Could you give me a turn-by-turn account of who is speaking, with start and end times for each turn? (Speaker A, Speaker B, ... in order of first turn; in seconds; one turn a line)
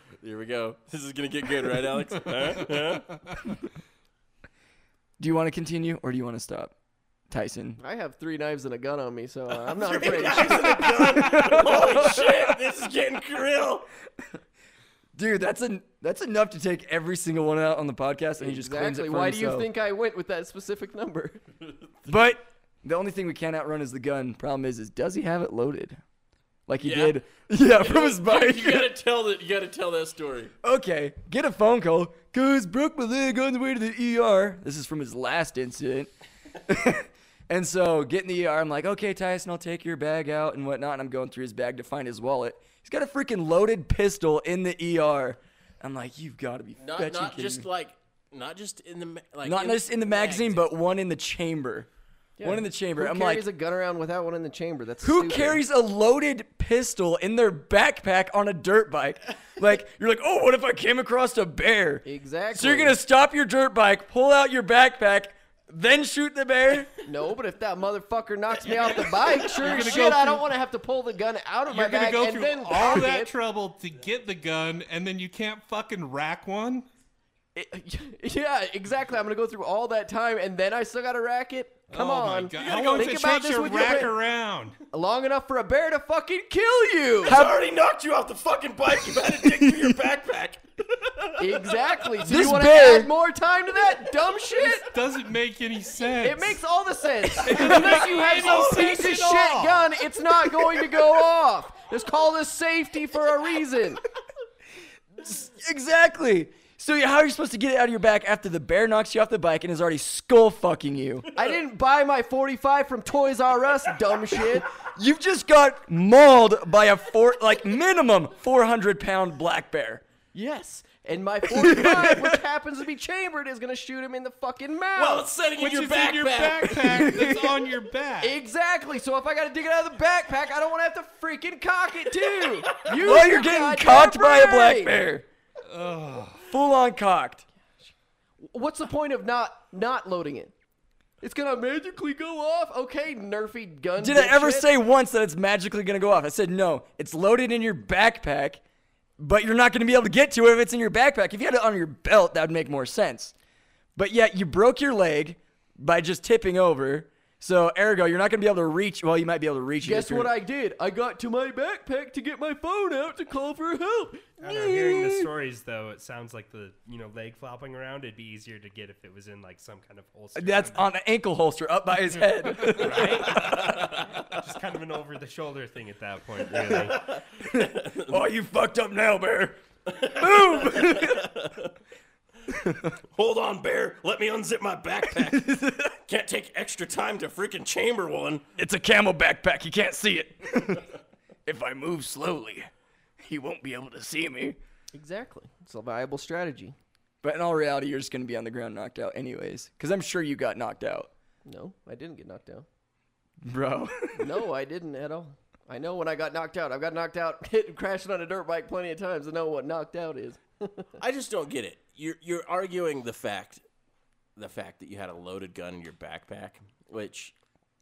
Speaker A: 0.2-3.2
Speaker B: 5.2-6.7
Speaker B: 7.3-7.8
Speaker C: 7.8-12.0
Speaker A: 9.7-13.9
Speaker B: 11.2-12.5
Speaker B: 15.1-19.7
Speaker C: 18.4-21.4
Speaker B: 22.1-26.0
Speaker B: 26.7-28.9
Speaker A: 26.8-27.2
Speaker A: 27.7-30.5
Speaker B: 30.6-36.1
Speaker B: 36.6-47.7
Speaker A: 46.8-50.6
Speaker B: 49.4-51.9
Speaker C: 52.4-55.6
Speaker B: 52.4-53.5
Speaker B: 55.0-66.9
Speaker C: 62.0-63.0
Speaker C: 67.0-73.3
Speaker D: 69.4-70.5
Speaker D: 71.7-76.9
Speaker C: 77.5-84.2
Speaker D: 81.9-84.8
Speaker A: 82.5-83.2
Speaker C: 84.9-87.4
Speaker B: 87.2-87.6
Speaker A: 87.2-92.0
Speaker B: 89.2-89.9
Speaker C: 91.4-94.9
Speaker B: 92.2-93.1
Speaker D: 94.5-96.6
Speaker C: 96.2-104.0
Speaker D: 97.4-100.0
Speaker A: 98.3-98.8
Speaker B: 105.2-111.3
Speaker C: 111.3-114.7
Speaker B: 114.8-120.0
Speaker C: 120.3-125.3
Speaker B: 121.5-122.4
Speaker A: 125.0-127.0
Speaker D: 125.6-128.4
Speaker B: 126.8-127.5
Speaker C: 128.2-135.0
Speaker B: 132.9-135.2
Speaker D: 135.7-136.5
Speaker B: 136.4-137.4
Speaker C: 138.4-140.5
Speaker C: 141.2-144.7
Speaker B: 144.0-148.6
Speaker B: 149.2-153.3
Speaker B: 153.9-160.3
Speaker C: 159.8-164.4
Speaker E: 164.4-170.9
Speaker B: 164.4-165.3
Speaker B: 170.3-174.0
Speaker E: 172.7-177.1
Speaker A: 173.5-173.8
Speaker A: 176.6-178.1
Speaker B: 176.7-181.3
Speaker A: 179.9-181.7
Speaker B: 182.5-182.9
Speaker A: 183.1-188.4
Speaker B: 185.2-186.0
Speaker B: 188.6-190.9
Speaker B: 191.4-194.6
Speaker C: 194.9-196.8
Speaker B: 197.2-201.1
Speaker C: 201.4-202.7
Speaker B: 203.4-204.4
Speaker C: 204.1-210.9
Speaker A: 211.0-213.6
Speaker A: 214.3-217.3